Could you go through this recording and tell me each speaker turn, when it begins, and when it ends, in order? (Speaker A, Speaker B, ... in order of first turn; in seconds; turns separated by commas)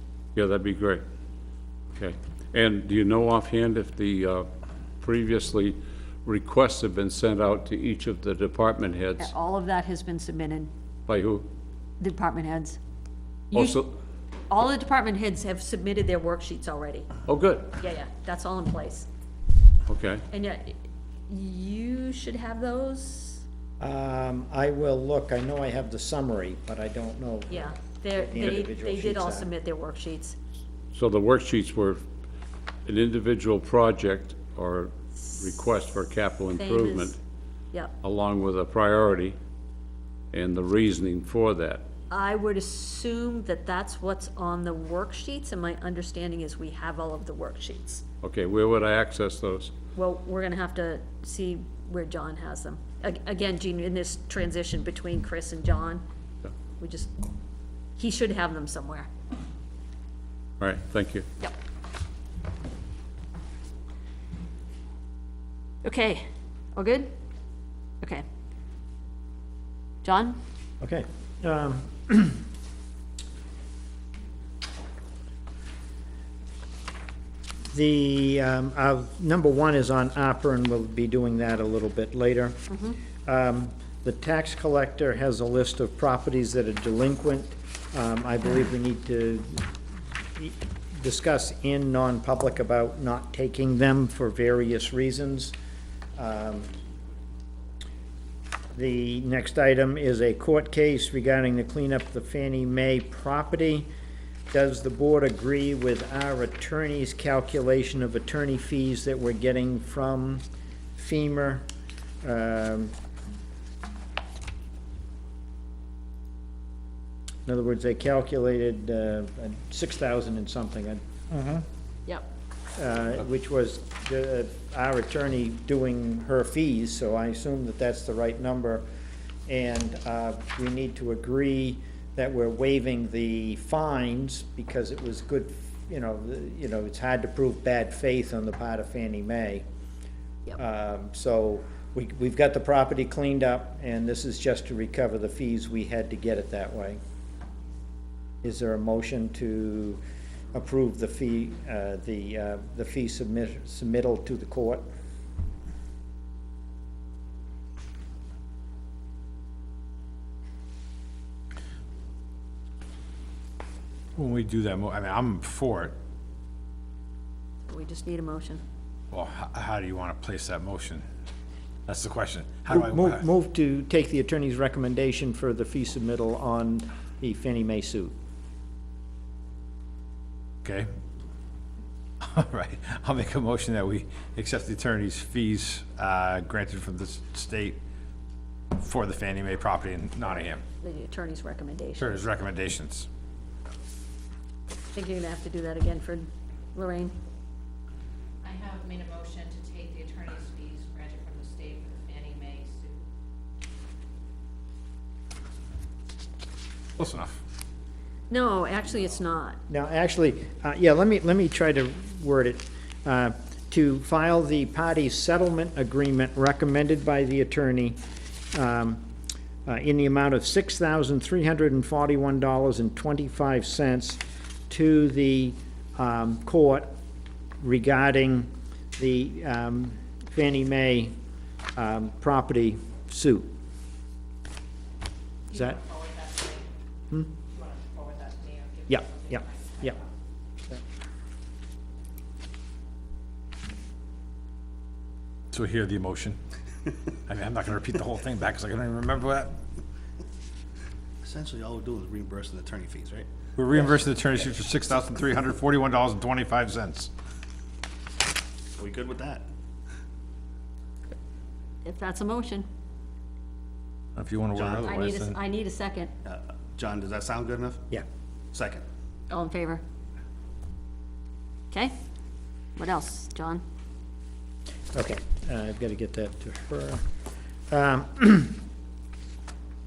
Speaker A: 0.3-1.0, Speaker A: 1.9-4.5, Speaker A: 5.0-9.3, Speaker B: 9.2-10.7, Speaker A: 11.1-11.4, Speaker B: 12.0-12.8, Speaker B: 13.5-13.9, Speaker A: 13.5-13.8, Speaker B: 14.5-17.1, Speaker A: 17.2-17.7, Speaker B: 17.8-19.1, Speaker A: 19.9-20.2, Speaker B: 20.3-23.4, Speaker C: 23.8-29.5, Speaker B: 27.5-30.4, Speaker A: 30.9-32.0, Speaker A: 32.9-37.2, Speaker B: 36.5-37.2, Speaker A: 38.0-39.4, Speaker A: 40.3-41.8, Speaker B: 42.1-48.0, Speaker A: 48.2-49.7, Speaker B: 50.0-56.0, Speaker B: 56.8-57.1, Speaker B: 58.0-59.1, Speaker A: 60.6-61.2, Speaker B: 65.8-67.1, Speaker B: 70.0-70.4, Speaker C: 70.8-72.4, Speaker C: 77.7-82.6, Speaker B: 82.7-83.0, Speaker C: 83.2-89.7, Speaker C: 90.3-95.5, Speaker C: 96.2-96.7, Speaker C: 98.7-103.9, Speaker C: 104.5-110.4, Speaker C: 111.0-111.6, Speaker C: 112.2-112.9, Speaker C: 117.5-121.6, Speaker C: 122.8-128.8, Speaker C: 129.5-139.6, Speaker C: 140.6-147.0, Speaker C: 148.4-150.0, Speaker C: 150.5-154.8, Speaker D: 164.2-165.9, Speaker B: 167.7-168.6, Speaker D: 169.1-171.0, Speaker D: 171.9-173.2, Speaker C: 172.7-178.1, Speaker D: 180.6-180.9, Speaker D: 182.2-187.8, Speaker D: 188.7-190.6, Speaker B: 190.8-192.2, Speaker D: 192.0-193.1, Speaker B: 194.9-197.1, Speaker E: 198.4-203.0, Speaker D: 207.0-207.4, Speaker B: 208.3-209.6, Speaker C: 209.7-218.0, Speaker C: 218.5-219.0, Speaker C: 219.7-226.9, Speaker C: 227.6-231.1, Speaker C: 231.8-233.5, Speaker E: 235.5-236.7, Speaker C: 235.5-235.8, Speaker E: 237.5-239.9, Speaker C: 238.9-239.9, Speaker D: 245.5-246.4, Speaker D: 247.2-249.6, Speaker F: 251.2-253.3, Speaker D: 253.6-257.1, Speaker F: 258.8-259.5, Speaker B: 261.8-262.6, Speaker D: 264.1-265.4, Speaker F: 264.5-265.0, Speaker B: 264.8-266.1, Speaker F: 266.2-267.8, Speaker F: 268.5-268.8, Speaker B: 269.3-269.8, Speaker B: 272.8-273.6, Speaker C: 274.9-277.0, Speaker C: 277.7-278.6